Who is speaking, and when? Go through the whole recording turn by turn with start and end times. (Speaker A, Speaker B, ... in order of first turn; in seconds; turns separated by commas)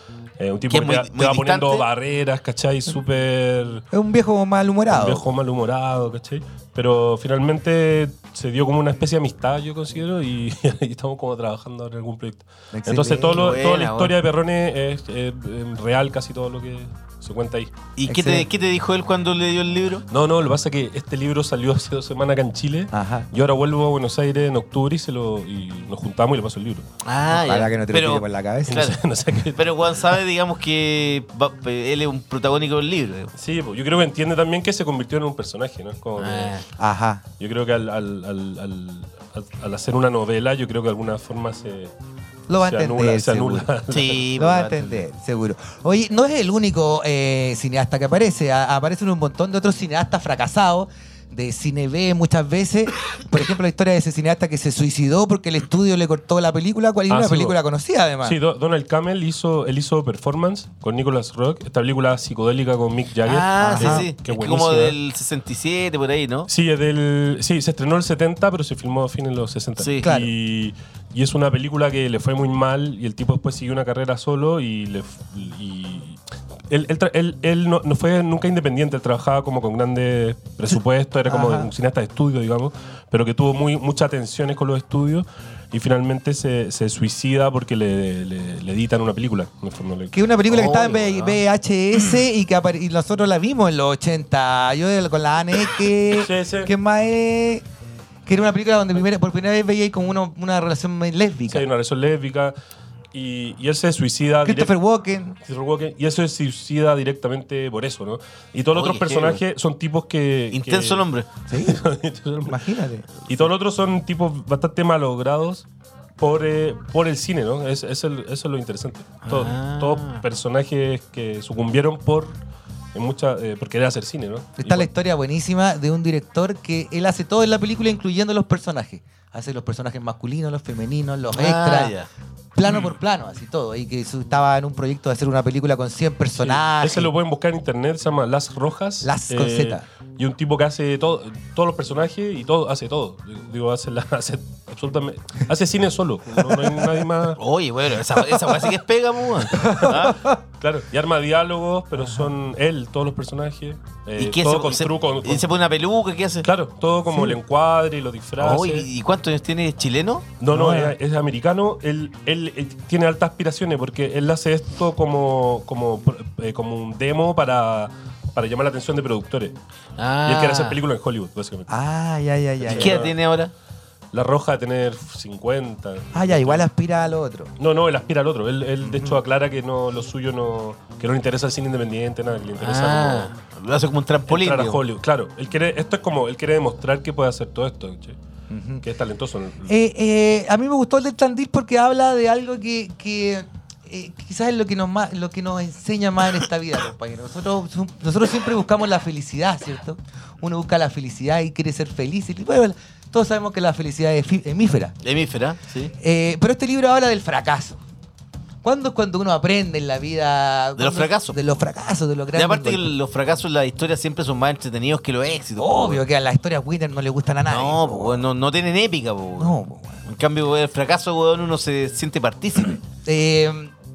Speaker A: 0.4-3.9, Speaker B: 0.7-1.9, Speaker C: 3.9-5.3, Speaker A: 4.9-17.7, Speaker C: 12.7-13.6, Speaker B: 13.3-14.1, Speaker B: 18.0-20.1, Speaker C: 18.1-18.5, Speaker A: 20.1-26.9, Speaker C: 22.9-23.3, Speaker B: 27.0-28.9, Speaker C: 27.3-29.0, Speaker A: 28.7-30.0, Speaker B: 29.6-33.3, Speaker A: 33.4-36.5, Speaker B: 36.2-36.6, Speaker C: 36.8-37.2, Speaker A: 37.4-41.9, Speaker C: 42.5-43.7, Speaker A: 42.6-44.3, Speaker B: 43.9-45.0, Speaker C: 44.3-58.4, Speaker A: 57.1-57.6, Speaker A: 58.2-65.0, Speaker B: 63.2-66.5, Speaker C: 63.6-64.1, Speaker A: 66.5-91.2, Speaker B: 69.8-70.1, Speaker C: 70.0-70.3, Speaker C: 81.3-81.7, Speaker C: 90.1-97.7, Speaker A: 96.1-96.7, Speaker C: 98.3-101.7, Speaker A: 101.5-102.5, Speaker A: 103.1-104.7, Speaker C: 104.4-105.4, Speaker A: 105.4-112.7, Speaker B: 108.7-109.4, Speaker B: 110.5-111.3, Speaker C: 111.5-111.8, Speaker C: 112.5-113.2, Speaker A: 113.2-115.7, Speaker A: 116.2-122.4, Speaker B: 119.2-120.2, Speaker A: 122.9-124.9, Speaker C: 124.6-131.9, Speaker B: 131.3-132.1, Speaker C: 132.6-137.1, Speaker A: 136.4-147.4, Speaker C: 139.0-139.8, Speaker B: 147.4-150.2, Speaker C: 149.5-150.4, Speaker A: 149.6-155.5, Speaker C: 152.0-152.2, Speaker B: 154.2-156.5, Speaker A: 156.4-158.9, Speaker C: 157.1-157.4, Speaker B: 158.4-160.3, Speaker A: 160.4-169.6, Speaker C: 160.5-161.0, Speaker B: 170.0-170.8, Speaker A: 170.2-171.7, Speaker C: 171.7-173.1, Speaker A: 172.6-173.2, Speaker B: 172.7-173.5, Speaker A: 174.1-176.7, Speaker C: 176.1-177.5, Speaker A: 177.6-183.3, Speaker C: 178.8-179.2, Speaker B: 182.6-184.8, Speaker A: 184.3-188.2, Speaker C: 188.5-188.8, Speaker A: 188.8-189.7, Speaker C: 189.7-205.0, Speaker B: 205.0-205.9, Speaker C: 205.9-207.8, Speaker C: 208.6-212.9, Speaker B: 210.8-211.4, Speaker B: 212.3-216.0, Speaker C: 215.6-218.2, Speaker B: 217.5-222.8, Speaker C: 219.4-220.0, Speaker C: 223.0-223.7